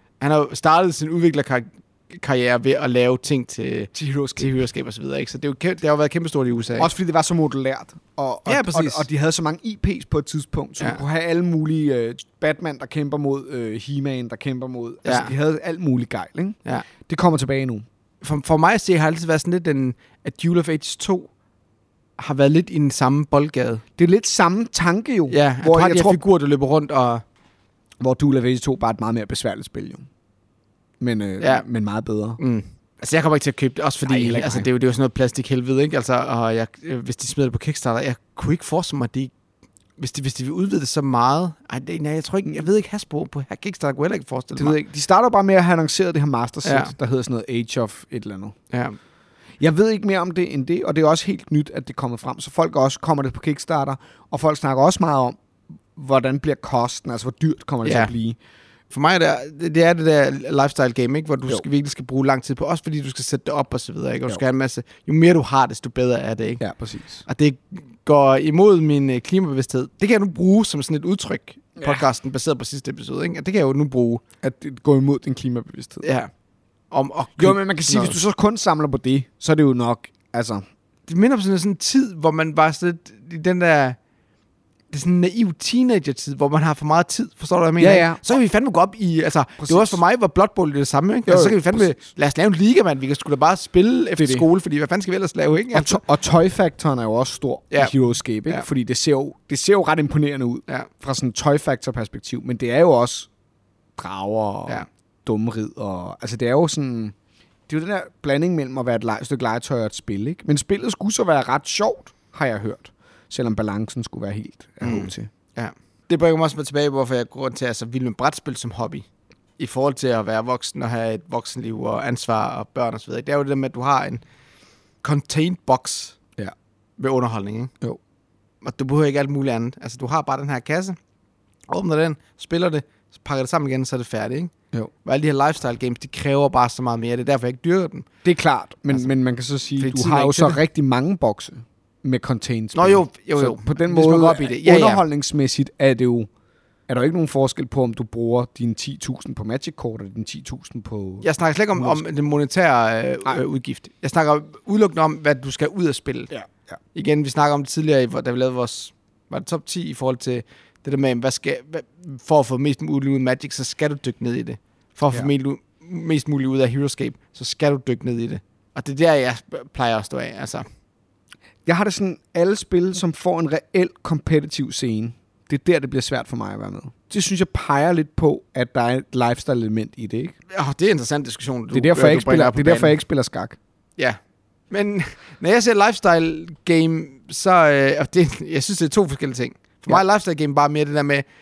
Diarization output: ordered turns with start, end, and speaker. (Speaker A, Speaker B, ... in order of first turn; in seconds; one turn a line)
Speaker A: 0.2-6.9
Speaker B: 3.9-4.5
Speaker B: 6.8-17.9
Speaker A: 8.5-9.1
Speaker A: 15.1-15.3
Speaker A: 18.2-21.3
Speaker A: 22.2-23.8
Speaker B: 24.0-26.2
Speaker A: 25.3-27.2
Speaker B: 28.0-30.1
Speaker B: 31.0-32.4
Speaker A: 32.4-39.3
Speaker B: 34.1-34.7
Speaker A: 40.0-44.8
Speaker B: 44.6-48.6
Speaker A: 46.6-46.9
Speaker B: 49.6-55.4
Speaker B: 56.0-58.4
Speaker A: 57.8-58.1
Speaker A: 58.9-66.6
Speaker B: 66.6-67.2
Speaker A: 67.3-74.2
Speaker B: 74.4-76.1
Speaker A: 76.0-76.3
Speaker A: 76.9-78.2
Speaker B: 77.4-80.6
Speaker A: 81.1-84.0
Speaker A: 84.9-96.0
Speaker B: 87.8-88.2
Speaker B: 89.6-90.0
Speaker B: 91.3-92.0
Speaker B: 94.2-94.5
Speaker B: 95.7-103.3
Speaker B: 104.0-107.1
Speaker B: 107.7-115.3
Speaker A: 114.8-119.1
Speaker A: 119.6-124.2
Speaker A: 125.0-126.2
Speaker A: 127.0-127.7
Speaker A: 128.6-131.0
Speaker A: 131.7-134.5
Speaker A: 135.1-138.1
Speaker B: 138.2-146.3
Speaker A: 139.8-140.6
Speaker A: 142.8-145.0
Speaker B: 146.9-152.0
Speaker A: 151.2-156.3
Speaker B: 156.3-156.7
Speaker A: 156.9-170.7
Speaker B: 171.7-180.3
Speaker A: 180.5-183.0
Speaker B: 181.7-183.6
Speaker A: 184.7-191.2